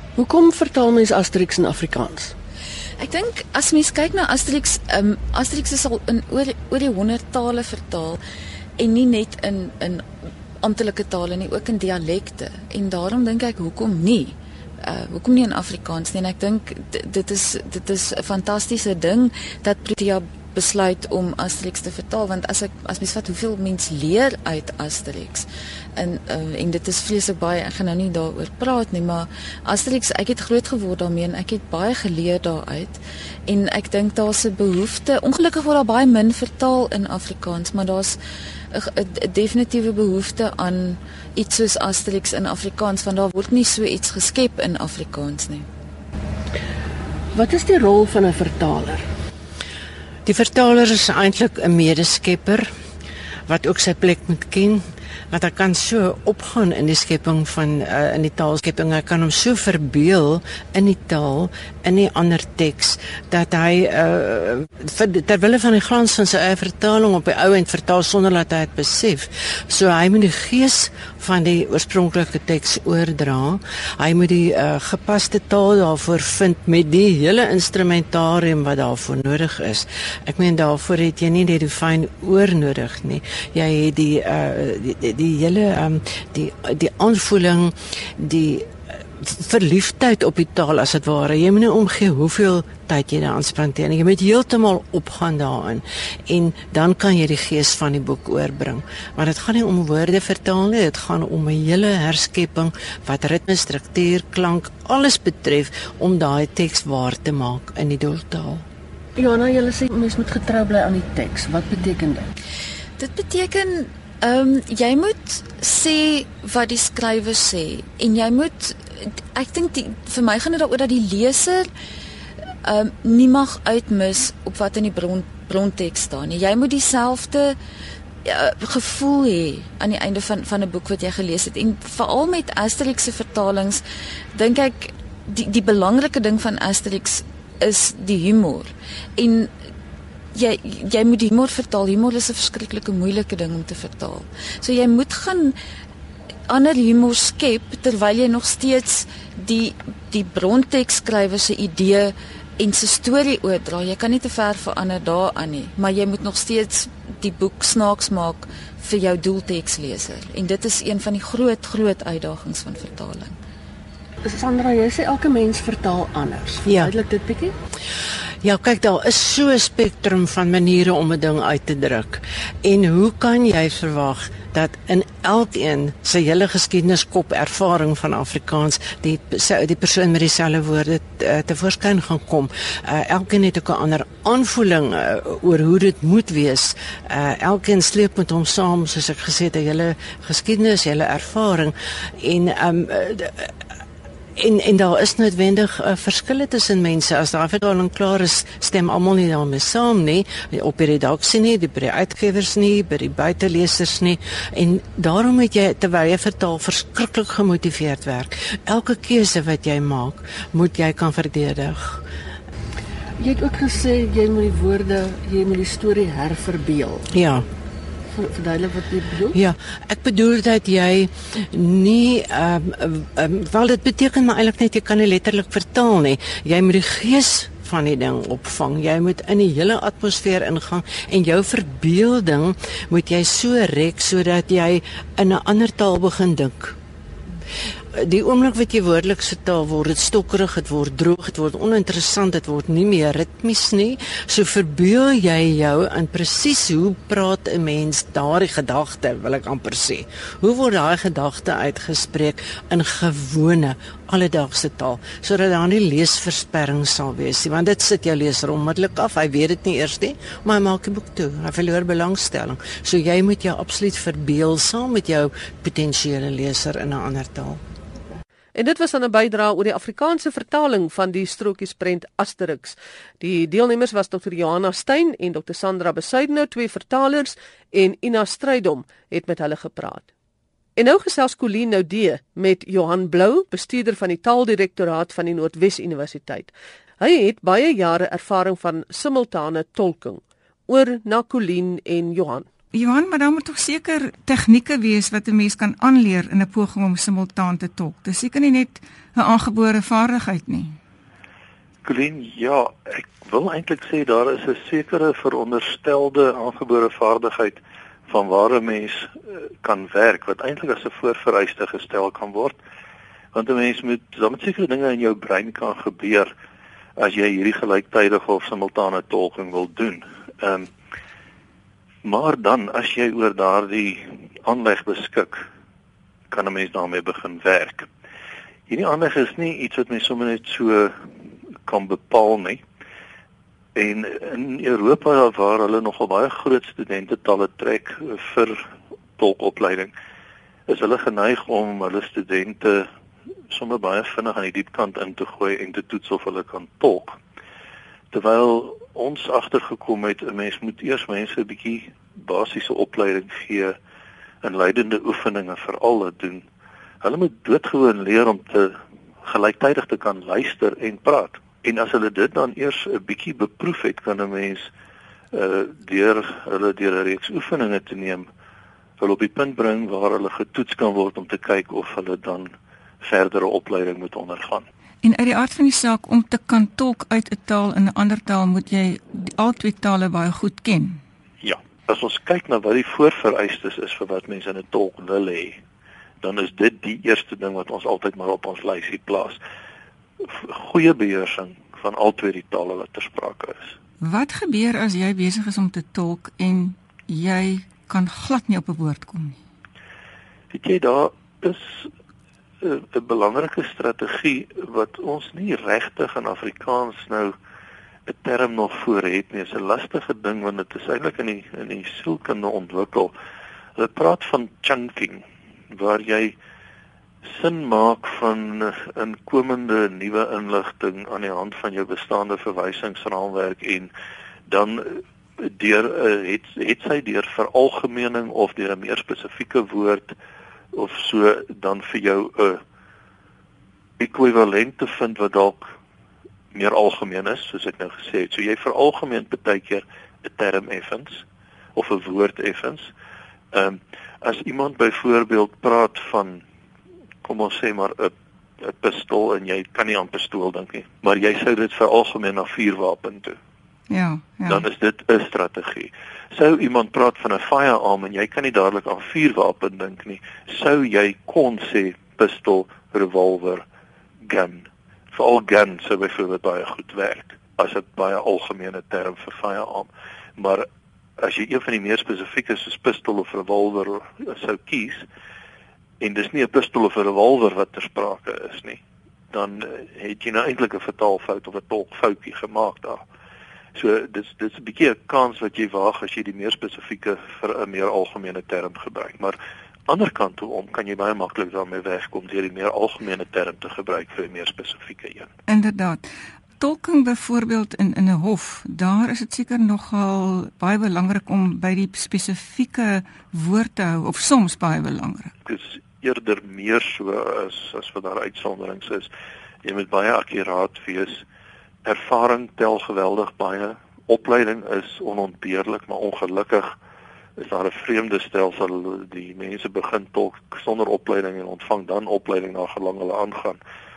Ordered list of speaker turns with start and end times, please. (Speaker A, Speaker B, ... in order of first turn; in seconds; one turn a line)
Speaker A: 0.2-2.3
Speaker B: 3.0-8.2
Speaker B: 8.8-10.0
Speaker B: 10.6-38.2
Speaker B: 38.7-45.6
Speaker A: 47.3-49.0
Speaker C: 50.2-52.6
Speaker C: 53.5-108.6
Speaker A: 109.2-112.2
Speaker B: 113.0-121.7
Speaker B: 122.6-127.6
Speaker B: 128.2-133.8
Speaker B: 134.3-139.5
Speaker B: 140.3-145.5
Speaker B: 146.5-163.4
Speaker A: 164.2-167.5
Speaker C: 166.7-166.9
Speaker C: 168.4-193.5
Speaker C: 194.4-212.0
Speaker A: 213.2-217.1
Speaker C: 217.1-217.4
Speaker A: 218.1-219.3
Speaker C: 219.3-236.8
Speaker C: 237.9-267.6
Speaker D: 268.5-280.1
Speaker D: 280.8-292.4
Speaker E: 292.7-300.8
Speaker F: 301.8-312.6
Speaker F: 313.3-316.3
Speaker F: 317.0-320.7
Speaker F: 322.0-325.4
Speaker F: 326.3-327.9
Speaker F: 328.7-330.9
Speaker F: 331.6-332.6
Speaker F: 333.7-338.6
Speaker F: 339.2-339.9
Speaker F: 340.7-342.9
Speaker F: 343.5-347.2
Speaker F: 348.1-353.8
Speaker F: 354.4-356.4
Speaker F: 357.0-364.7
Speaker F: 365.3-368.3
Speaker F: 369.0-372.5
Speaker F: 373.0-374.6
Speaker E: 375.0-381.0
Speaker F: 381.4-385.6
Speaker F: 386.2-389.4
Speaker F: 390.2-393.7
Speaker E: 394.0-399.4
Speaker F: 400.5-401.9
Speaker F: 402.6-407.3
Speaker F: 408.1-413.1
Speaker F: 413.8-416.4
Speaker F: 417.3-423.9
Speaker F: 424.5-430.1
Speaker F: 430.7-432.6
Speaker F: 434.0-435.7
Speaker F: 436.5-441.2
Speaker F: 441.8-442.9
Speaker F: 443.5-446.4
Speaker F: 447.2-453.4
Speaker E: 453.9-454.6
Speaker F: 454.5-463.6
Speaker F: 464.2-470.7
Speaker F: 471.2-475.0
Speaker F: 476.0-478.8
Speaker F: 479.3-483.0
Speaker F: 483.7-489.4
Speaker F: 489.9-495.3
Speaker E: 495.5-496.1
Speaker E: 496.6-505.3
Speaker F: 505.4-509.1
Speaker F: 509.6-511.2
Speaker F: 511.8-516.7
Speaker F: 517.4-523.6